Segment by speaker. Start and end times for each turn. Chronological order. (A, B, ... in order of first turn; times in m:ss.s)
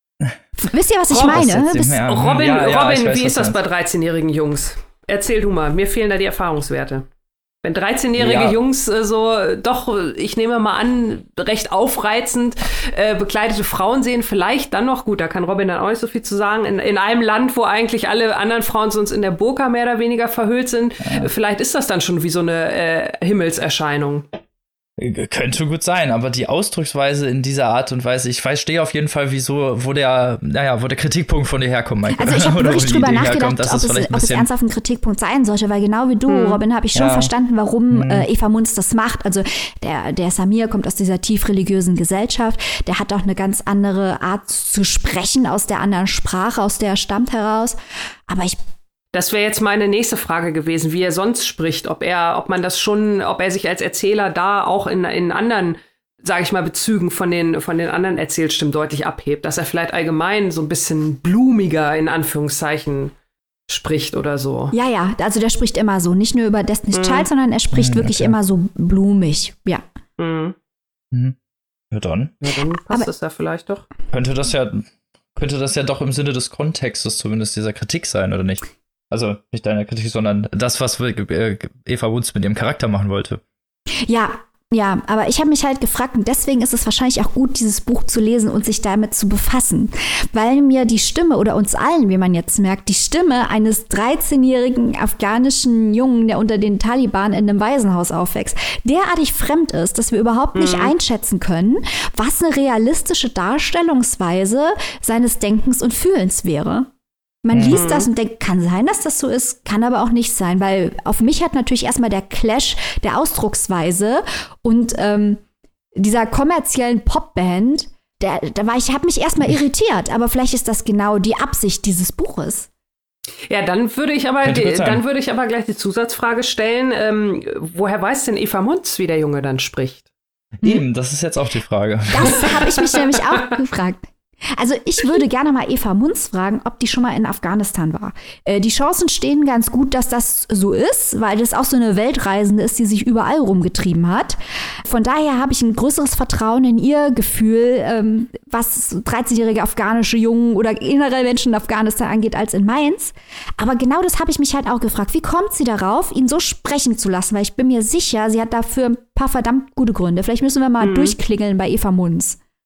0:00.6-0:02.0 A
0:01.1-0:01.4 B
0:01.2-0:03.6 C
0:02.0-0:07.0 B
0:07.6-0:24.2 B
0:08.2-0:08.6 C
0:25.0-0:34.5 C
0:32.2-0:47.8 A
0:36.3-0:36.6 B
0:37.0-0:37.3 C
0:37.9-0:38.3 C
0:48.3-0:48.6 A
0:49.1-1:03.1 B
1:03.7-1:04.7 B
1:04.7-1:09.8 A
1:06.9-1:07.3 B
1:07.7-1:08.3 C
1:10.2-1:10.6 B
1:11.9-1:12.4 C
1:12.4-1:13.9 B
1:14.1-1:23.4 C
1:24.1-1:46.9 A
1:40.6-1:40.9 B
1:47.4-1:55.4 A
1:47.5-1:47.8 C
1:47.7-1:48.1 B
1:56.0-2:02.7 A
2:03.5-2:10.0 B
2:04.4-2:05.0 C
2:10.6-2:12.5 C
2:12.1-2:42.4 A
2:40.8-2:41.1 B